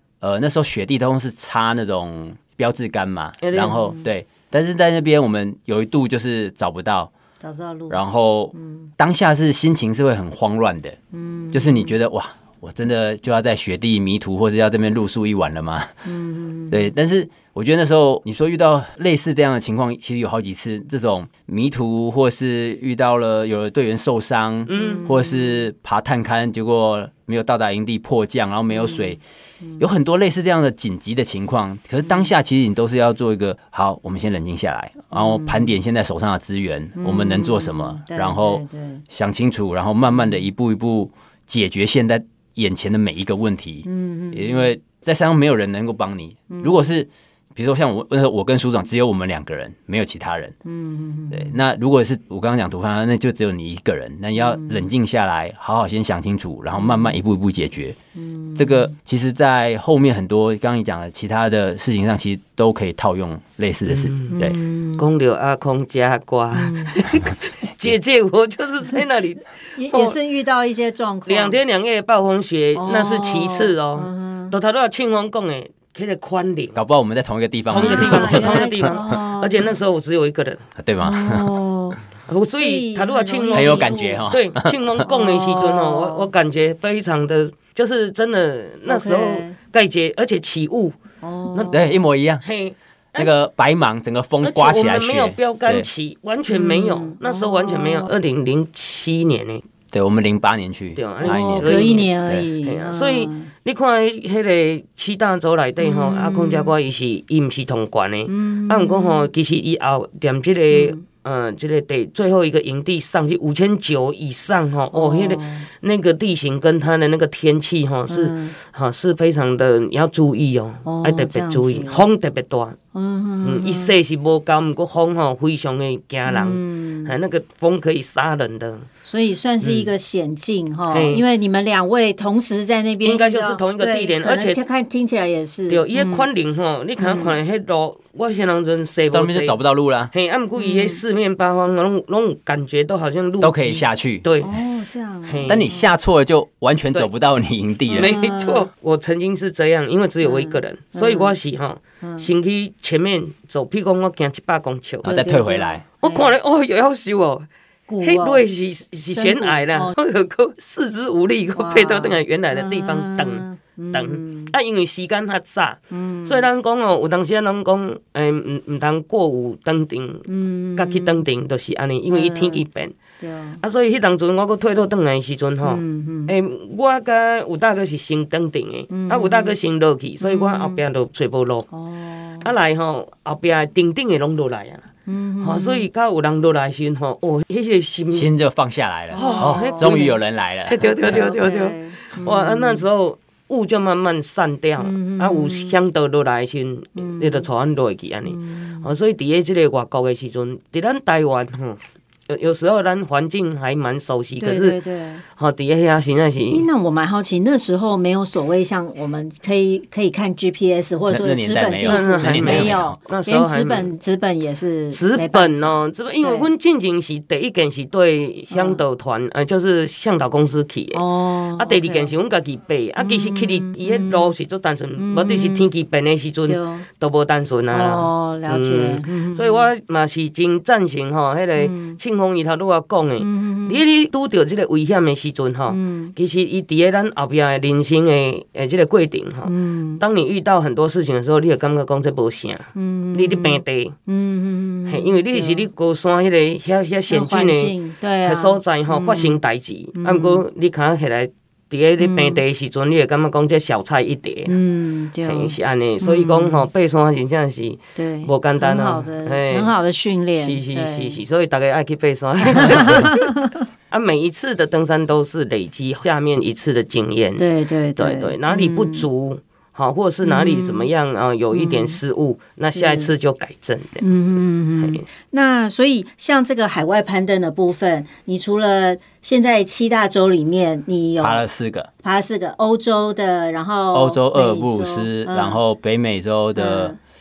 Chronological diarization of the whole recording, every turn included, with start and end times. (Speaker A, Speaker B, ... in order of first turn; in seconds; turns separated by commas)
Speaker A: 0.2-7.1, Speaker B: 3.4-3.8, Speaker C: 3.6-4.1, Speaker C: 7.4-8.9, Speaker A: 7.9-11.0, Speaker C: 11.1-12.0, Speaker A: 11.5-16.0, Speaker C: 16.1-16.9, Speaker A: 16.7-29.2, Speaker B: 24.7-25.1, Speaker C: 24.7-25.7, Speaker C: 28.7-29.9, Speaker A: 29.8-50.5, Speaker C: 32.0-32.3, Speaker C: 35.1-35.8, Speaker C: 37.0-39.0, Speaker C: 40.1-40.4, Speaker C: 43.9-44.8, Speaker C: 46.5-46.8, Speaker C: 50.7-51.6, Speaker A: 51.3-58.0, Speaker C: 54.4-54.9, Speaker C: 56.7-57.2, Speaker C: 58.2-58.9, Speaker A: 58.6-64.6, Speaker B: 63.9-64.4, Speaker C: 64.3-65.1, Speaker B: 65.0-70.2, Speaker C: 66.5-67.0, Speaker C: 69.8-71.6, Speaker B: 71.3-76.8, Speaker C: 72.8-74.5, Speaker A: 76.8-79.0, Speaker B: 77.7-80.6, Speaker C: 77.7-79.7, Speaker A: 80.8-81.6, Speaker C: 81.0-82.0, Speaker B: 82.3-91.0, Speaker C: 82.5-84.3, Speaker A: 83.5-84.8, Speaker C: 85.0-86.3, Speaker C: 88.9-89.5, Speaker C: 91.2-92.0, Speaker B: 91.5-91.8, Speaker A: 91.7-92.4, Speaker B: 92.4-93.3, Speaker A: 93.2-95.9, Speaker B: 94.4-99.6, Speaker C: 96.5-98.1, Speaker A: 99.9-102.5, Speaker B: 101.0-102.1, Speaker C: 101.2-103.5, Speaker B: 102.6-122.8, Speaker C: 105.8-106.7, Speaker C: 108.3-109.3, Speaker C: 110.7-111.0, Speaker C: 114.9-115.7, Speaker C: 118.1-118.5, Speaker C: 120.8-122.0, Speaker C: 122.9-123.9, Speaker B: 123.4-128.9, Speaker C: 126.3-127.1, Speaker C: 129.1-136.3, Speaker B: 129.6-129.9, Speaker B: 130.9-131.2, Speaker B: 133.0-134.6, Speaker B: 135.7-139.6, Speaker C: 137.0-137.4, Speaker A: 139.0-140.1, Speaker B: 140.1-144.6, Speaker C: 140.6-141.0, Speaker A: 143.4-144.3, Speaker C: 144.4-146.0, Speaker B: 145.2-145.6, Speaker A: 145.5-148.1, Speaker C: 147.9-148.7, Speaker B: 148.0-155.1, Speaker C: 150.2-151.3, Speaker C: 152.0-152.3, Speaker C: 155.0-156.3, Speaker A: 155.1-155.9, Speaker B: 156.0-157.5, Speaker C: 157.9-158.4, Speaker B: 158.0-173.0, Speaker C: 159.1-159.9, Speaker C: 161.6-164.5, Speaker C: 165.9-166.5, Speaker C: 170.3-171.2, Speaker C: 172.1-172.6, Speaker C: 173.2-173.6, Speaker B: 173.6-181.7, Speaker C: 175.6-176.3, Speaker C: 178.9-179.6, Speaker C: 180.2-180.8, Speaker C: 181.7-182.5, Speaker B: 182.4-184.9, Speaker C: 185.1-185.9, Speaker B: 185.4-188.3, Speaker A: 188.1-191.2, Speaker C: 189.1-190.2, Speaker B: 189.1-190.2, Speaker B: 190.7-204.8, Speaker C: 191.0-192.9, Speaker C: 194.8-195.8, Speaker C: 197.0-197.5, Speaker C: 198.2-198.9, Speaker C: 204.4-205.2, Speaker B: 205.3-206.7, Speaker C: 206.5-216.5, Speaker A: 211.1-213.0, Speaker B: 211.8-213.9, Speaker B: 214.9-221.0, Speaker C: 218.5-218.8, Speaker C: 220.9-222.2, Speaker B: 221.6-243.9, Speaker C: 223.0-224.3, Speaker C: 225.0-225.7, Speaker C: 226.5-226.9, Speaker C: 227.7-229.7, Speaker C: 231.6-232.0, Speaker C: 233.2-233.8, Speaker C: 235.7-236.1, Speaker C: 239.4-240.0, Speaker C: 242.8-245.7, Speaker B: 244.9-254.6, Speaker C: 247.1-249.4, Speaker C: 250.0-250.4, Speaker C: 252.0-252.4, Speaker C: 254.5-256.7, Speaker B: 255.2-259.7, Speaker C: 257.9-261.2, Speaker B: 260.3-263.4, Speaker C: 262.4-263.6, Speaker B: 263.9-275.1, Speaker C: 267.4-269.1, Speaker C: 270.2-270.9, Speaker C: 271.5-272.0, Speaker C: 272.7-273.1, Speaker C: 274.0-281.5, Speaker A: 281.2-281.9, Speaker C: 282.0-285.6, Speaker A: 283.9-287.0, Speaker C: 286.6-287.0